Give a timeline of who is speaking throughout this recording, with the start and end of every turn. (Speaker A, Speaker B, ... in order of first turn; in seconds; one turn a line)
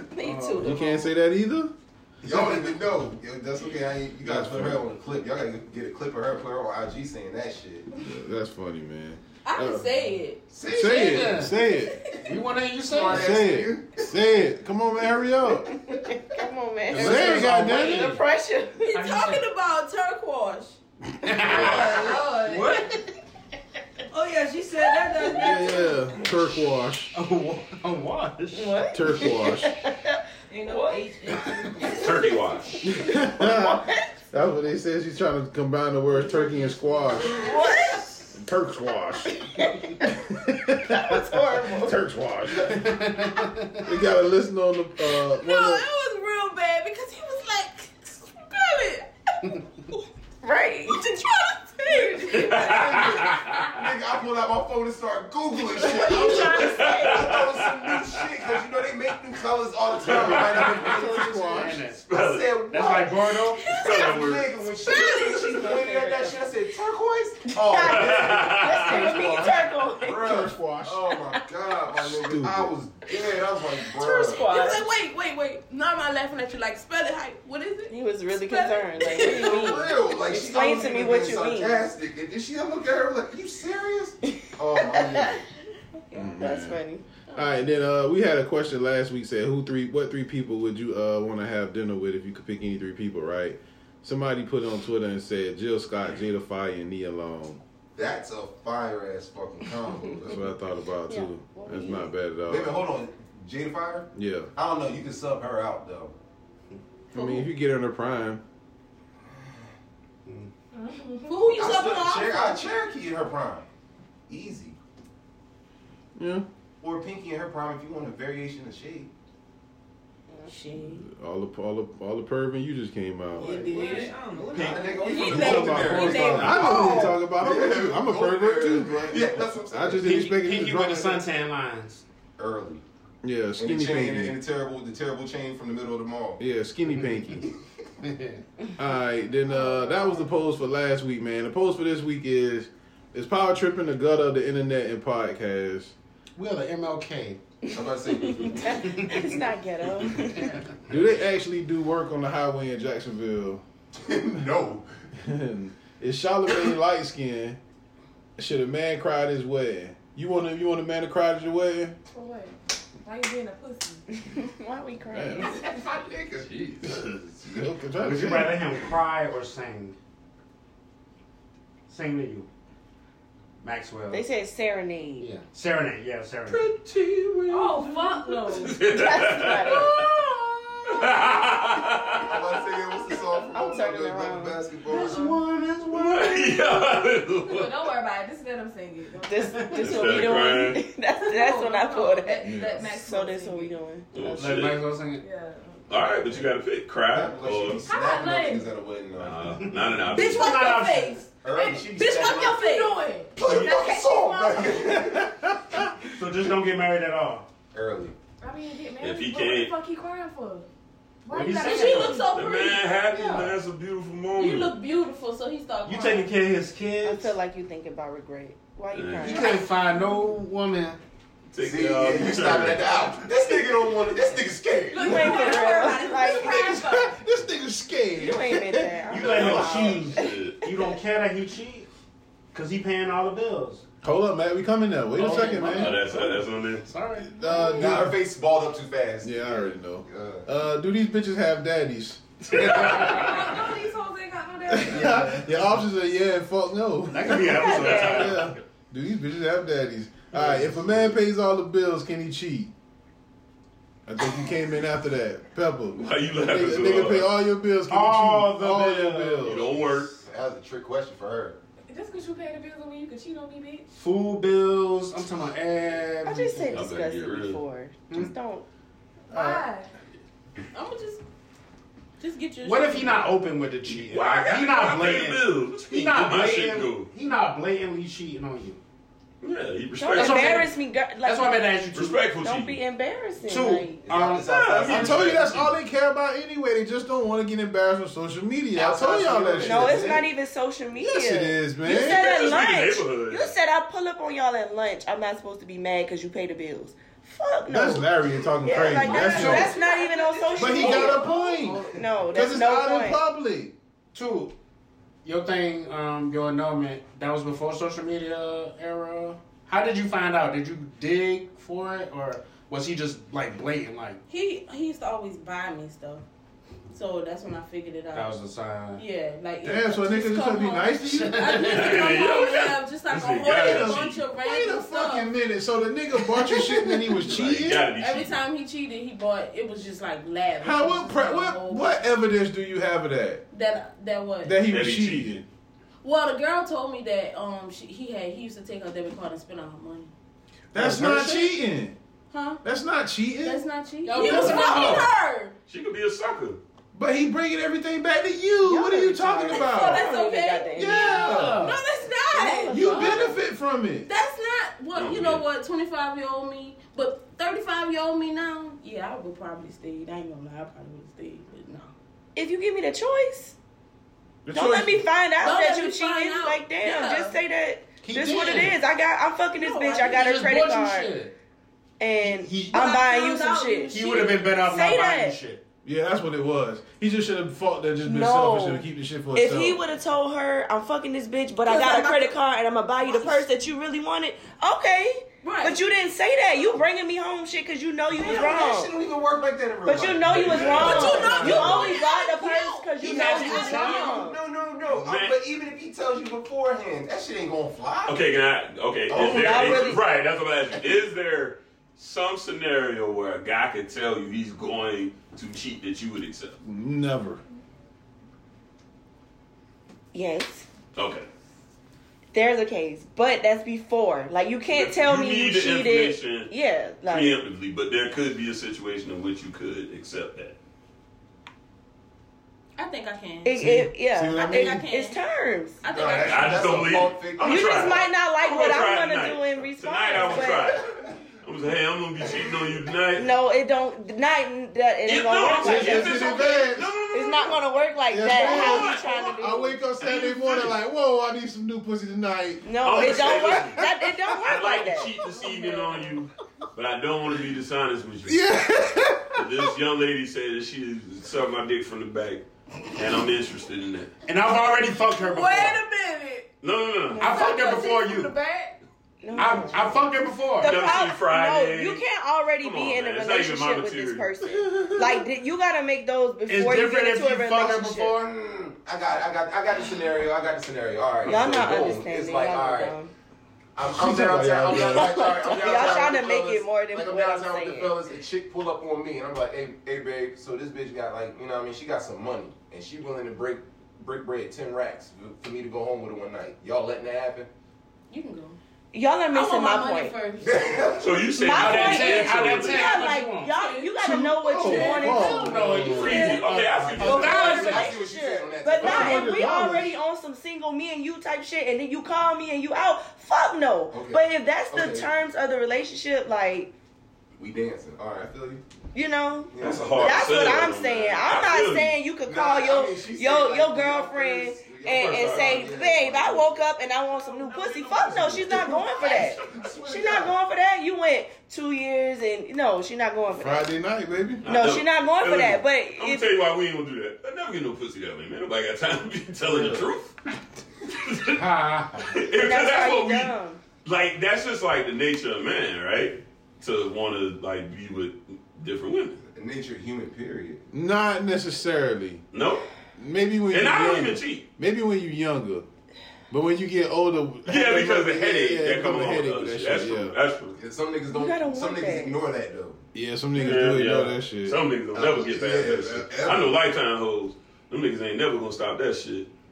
Speaker A: 0.2-1.0
Speaker B: 0.2-0.9
Speaker C: 0.6-1.7
Speaker D: 2.2-7.9
Speaker B: 2.2-2.7
Speaker C: 4.2-4.9
Speaker C: 7.9-9.9
Speaker A: 9.4-11.0
Speaker D: 10.5-11.4
Speaker C: 10.7-12.0
Speaker B: 10.8-11.6
Speaker A: 11.6-12.1
Speaker B: 12.2-13.4
Speaker D: 12.9-14.1
Speaker C: 13.1-15.7
Speaker E: 15.9-19.0
Speaker B: 16.9-18.2
Speaker C: 16.9-18.1
Speaker A: 18.9-20.8
Speaker B: 18.9-19.5
Speaker B: 21.2-23.0
Speaker F: 21.5-21.9
Speaker G: 21.6-22.7
Speaker H: 24.1-26.3
Speaker C: 25.3-27.1
Speaker B: 27.1-28.8
Speaker E: 28.5-31.1
Speaker C: 28.9-29.7
Speaker H: 30.5-32.6
Speaker F: 31.9-32.8
Speaker C: 32.8-37.5
Speaker E: 33.0-34.1
Speaker E: 37.4-38.0
Speaker C: 38.3-39.4
Speaker E: 39.5-40.1
Speaker C: 40.3-42.9
Speaker E: 40.9-42.0
Speaker B: 42.7-43.9
Speaker C: 43.8-45.9
Speaker A: 45.3-49.1
Speaker E: 50.4-51.0
Speaker A: 50.9-52.9
Speaker F: 52.3-53.8
Speaker D: 52.7-63.2
Speaker E: 55.8-57.4
Speaker A: 55.9-56.3
Speaker F: 56.6-58.2
Speaker F: 60.0-60.8
Speaker C: 60.5-61.8
Speaker B: 60.9-62.0
Speaker F: 62.1-63.0
Speaker B: 62.7-63.6
Speaker A: 63.6-64.2
Speaker F: 63.7-64.5
Speaker D: 63.8-69.4
Speaker A: 64.7-66.2
Speaker E: 65.5-66.4
Speaker E: 67.6-70.4
Speaker F: 67.8-69.1
Speaker C: 68.9-71.0
Speaker D: 70.0-74.5
Speaker C: 72.0-72.7
Speaker A: 73.8-80.1
Speaker E: 74.4-74.8
Speaker E: 77.9-81.8
Speaker D: 79.2-85.5
Speaker E: 84.8-85.4
Speaker C: 86.1-97.6
Speaker E: 86.2-87.0
Speaker D: 98.0-100.5
Speaker C: 100.2-102.8
Speaker E: 101.1-102.1
Speaker D: 102.5-106.2
Speaker C: 104.1-104.5
Speaker C: 107.1-108.4
Speaker A: 107.1-107.5
Speaker D: 109.3-109.7
Speaker G: 110.7-111.5
Speaker A: 111.3-112.9
Speaker D: 111.5-113.7
Speaker D: 114.3-114.8
Speaker C: 116.2-116.5
Speaker D: 116.8-119.1
Speaker E: 120.3-120.5
Speaker A: 120.5-121.0
Speaker C: 120.8-123.7
Speaker A: 123.4-124.2
Speaker B: 123.4-123.9
Speaker H: 123.6-125.3
Speaker D: 124.5-130.2
Speaker A: 124.8-127.1
Speaker C: 125.2-131.2
Speaker B: 130.0-132.0
Speaker D: 132.4-132.8
Speaker C: 133.2-134.4
Speaker D: 133.6-136.4
Speaker C: 136.4-137.5
Speaker B: 136.9-137.2
Speaker B: 138.0-138.4
Speaker C: 138.8-145.9
Speaker G: 139.5-140.1
Speaker B: 146.4-147.4
Speaker D: 147.7-148.7
Speaker E: 148.1-150.5
Speaker B: 148.8-149.3
Speaker B: 150.3-151.1
Speaker C: 150.9-153.6
Speaker D: 153.9-154.9
Speaker C: 155.2-157.6
Speaker C: 158.4-162.0
Speaker G: 162.1-164.1
Speaker E: 164.1-165.7
Speaker C: 165.1-165.6
Speaker D: 165.5-166.5
Speaker F: 166.5-167.3
Speaker C: 166.8-168.7
Speaker B: 167.9-170.0
Speaker B: 171.9-172.5
Speaker B: 173.6-174.2
Speaker E: 174.1-175.3
Speaker B: 175.2-176.7
Speaker F: 176.5-177.8
Speaker G: 177.5-178.8
Speaker A: 177.7-178.7
Speaker F: 178.4-180.2
Speaker E: 178.9-180.0
Speaker F: 180.9-182.4
Speaker D: 182.2-185.2
Speaker E: 183.5-184.6
Speaker G: 184.9-185.4
Speaker B: 184.9-186.5
Speaker F: 185.9-187.8
Speaker G: 187.5-189.7
Speaker E: 189.2-194.7
Speaker B: 189.5-190.2
Speaker F: 189.8-190.8
Speaker G: 191.2-193.8
Speaker C: 192.4-192.9
Speaker F: 194.1-194.8
Speaker B: 194.3-195.2
Speaker G: 195.2-196.0
Speaker F: 195.9-197.8
Speaker D: 197.1-199.7
Speaker G: 197.9-198.7
Speaker F: 199.2-200.8
Speaker B: 199.6-201.3
Speaker A: 200.1-203.3
Speaker D: 201.4-202.7
Speaker G: 202.3-205.0
Speaker D: 203.3-205.3
Speaker C: 204.8-205.9
Speaker B: 206.2-207.5
Speaker D: 207.7-208.2
Speaker G: 208.4-210.7
Speaker F: 209.0-209.7
Speaker G: 211.2-212.4
Speaker B: 211.3-212.3
Speaker A: 211.6-212.9
Speaker F: 212.2-214.7
Speaker G: 213.1-213.5
Speaker A: 214.3-216.3
Speaker B: 215.8-217.4
Speaker E: 217.0-219.6
Speaker F: 218.9-219.5
Speaker B: 219.2-221.0
Speaker F: 221.5-223.3
Speaker D: 221.6-225.5
Speaker A: 224.9-227.1
Speaker E: 224.9-226.8
Speaker G: 225.0-227.2
Speaker C: 226.4-229.0
Speaker E: 228.2-230.4
Speaker B: 229.1-231.9
Speaker F: 229.1-230.7
Speaker B: 232.5-233.8
Speaker C: 234.0-236.0
Speaker B: 235.2-237.5
Speaker F: 235.6-236.8
Speaker C: 237.3-238.2
Speaker D: 237.5-240.5
Speaker C: 239.2-242.8
Speaker B: 242.6-243.3
Speaker F: 242.6-243.5
Speaker G: 242.7-245.3
Speaker C: 244.7-252.7
Speaker B: 244.8-245.7
Speaker B: 247.1-248.5
Speaker F: 247.4-248.6
Speaker B: 250.3-250.9
Speaker C: 254.1-259.6
Speaker F: 256.0-257.3
Speaker B: 257.9-260.0
Speaker F: 259.4-260.1
Speaker D: 260.2-261.6
Speaker G: 261.9-263.9
Speaker B: 263.9-266.9
Speaker E: 266.2-268.6
Speaker F: 266.7-267.6
Speaker G: 269.3-269.9
Speaker C: 269.3-269.7
Speaker A: 270.7-271.2
Speaker A: 272.2-273.3
Speaker B: 272.6-278.8
Speaker F: 273.9-277.1
Speaker F: 279.4-280.7
Speaker E: 280.0-281.6
Speaker B: 280.2-282.2
Speaker F: 281.9-282.8
Speaker E: 282.4-284.0
Speaker B: 283.5-284.5
Speaker D: 284.0-285.8
Speaker F: 284.4-285.6
Speaker C: 284.9-290.2
Speaker D: 288.7-290.2
Speaker E: 289.6-301.3
Speaker C: 291.0-292.5
Speaker F: 291.9-293.5
Speaker C: 297.7-299.8
Speaker G: 298.7-301.8
Speaker A: 299.0-301.1
Speaker C: 300.6-303.7
Speaker B: 301.5-302.3
Speaker E: 301.9-303.2
Speaker B: 304.1-304.5
Speaker B: 305.2-314.2
Speaker A: 314.3-316.2
Speaker A: 316.9-318.4
Speaker B: 318.1-319.0
Speaker A: 319.0-325.3
Speaker C: 319.6-321.6
Speaker B: 321.1-322.2
Speaker F: 321.6-324.2
Speaker C: 323.5-327.9
Speaker F: 327.2-328.4
Speaker A: 327.8-332.0
Speaker C: 330.6-333.4
Speaker A: 333.5-334.7
Speaker C: 334.4-335.4
Speaker F: 334.6-335.4
Speaker A: 336.0-340.1
Speaker C: 340.7-342.0
Speaker B: 340.8-341.5
Speaker A: 342.3-342.6
Speaker C: 342.6-343.6
Speaker A: 343.4-345.6
Speaker G: 344.1-344.7
Speaker C: 344.2-344.9
Speaker F: 344.5-345.1
Speaker F: 345.7-346.6
Speaker C: 346.9-350.1
Speaker E: 348.6-351.3
Speaker A: 349.5-353.4
Speaker C: 350.8-351.8
Speaker E: 352.3-353.4
Speaker C: 352.7-354.1
Speaker A: 354.1-361.9
Speaker F: 354.9-355.4
Speaker E: 362.4-363.6
Speaker C: 364.4-365.1
Speaker E: 364.5-371.1
Speaker A: 365.4-367.4
Speaker B: 368.0-368.8
Speaker A: 369.6-370.1
Speaker B: 370.0-371.3
Speaker E: 372.0-375.4
Speaker B: 372.2-372.9
Speaker A: 372.7-374.5
Speaker B: 373.9-375.6
Speaker C: 375.9-379.8
Speaker E: 378.0-388.9
Speaker A: 381.7-382.4
Speaker A: 383.0-383.5
Speaker A: 385.4-385.8
Speaker D: 388.1-391.9
Speaker E: 389.9-394.4
Speaker F: 390.3-391.4
Speaker A: 390.6-394.2
Speaker D: 393.0-398.2
Speaker B: 393.3-394.1
Speaker F: 394.9-395.4
Speaker F: 398.1-406.6
Speaker D: 399.1-400.0
Speaker E: 399.1-400.0
Speaker C: 406.6-407.4
Speaker E: 410.1-410.7
Speaker F: 410.9-411.3
Speaker E: 412.3-417.3
Speaker F: 414.7-416.5
Speaker F: 417.1-420.6
Speaker A: 422.8-423.7
Speaker E: 423.4-425.8
Speaker C: 424.1-424.8
Speaker A: 424.4-425.2
Speaker A: 425.8-427.0
Speaker D: 425.9-427.9
Speaker F: 426.0-433.3
Speaker E: 427.4-430.8
Speaker E: 433.1-436.5
Speaker F: 435.1-437.6
Speaker C: 435.5-436.9
Speaker E: 437.1-439.8
Speaker C: 438.1-444.3
Speaker F: 438.4-439.1
Speaker F: 440.0-440.8
Speaker E: 442.6-446.0
Speaker F: 442.8-443.9
Speaker F: 444.4-448.5
Speaker C: 448.2-449.7
Speaker F: 449.4-454.1
Speaker B: 454.3-455.8
Speaker A: 455.1-456.5
Speaker F: 456.6-457.4
Speaker E: 457.2-457.4
Speaker B: 457.2-458.4
Speaker A: 457.2-458.8
Speaker E: 459.2-468.1
Speaker B: 459.4-460.8
Speaker F: 460.6-462.0
Speaker F: 462.6-464.3
Speaker C: 464.6-465.2
Speaker B: 466.5-468.3
Speaker D: 468.2-473.0
Speaker E: 471.2-473.1
Speaker D: 473.8-487.5
Speaker C: 473.9-475.5
Speaker E: 474.6-478.0
Speaker A: 488.1-488.6
Speaker E: 488.9-490.2
Speaker A: 489.3-490.9
Speaker D: 490.4-491.1
Speaker F: 491.0-493.1
Speaker E: 491.4-495.7
Speaker B: 491.4-498.0
Speaker A: 493.5-496.0
Speaker C: 494.1-496.2
Speaker F: 495.8-497.5
Speaker E: 497.1-506.7
Speaker A: 497.1-497.5
Speaker D: 497.2-499.4
Speaker C: 498.8-500.0
Speaker D: 503.9-505.1
Speaker D: 507.4-508.6
Speaker E: 508.9-523.7
Speaker D: 509.5-510.4
Speaker F: 509.6-511.9
Speaker D: 512.2-516.7
Speaker F: 514.9-515.8
Speaker F: 517.3-519.8
Speaker D: 519.5-520.3
Speaker C: 523.4-524.4
Speaker F: 524.4-530.1
Speaker E: 524.5-526.3
Speaker F: 530.9-531.4
Speaker B: 531.4-532.2
Speaker F: 532.1-539.2
Speaker E: 532.3-533.6
Speaker D: 539.2-540.6
Speaker C: 540.7-542.2
Speaker F: 542.3-542.7
Speaker C: 543.0-545.7
Speaker F: 543.5-544.5
Speaker C: 546.3-550.2
Speaker F: 547.5-550.6
Speaker D: 550.5-552.8
Speaker E: 551.1-552.2
Speaker C: 552.9-554.6
Speaker F: 553.4-559.3
Speaker D: 554.9-556.6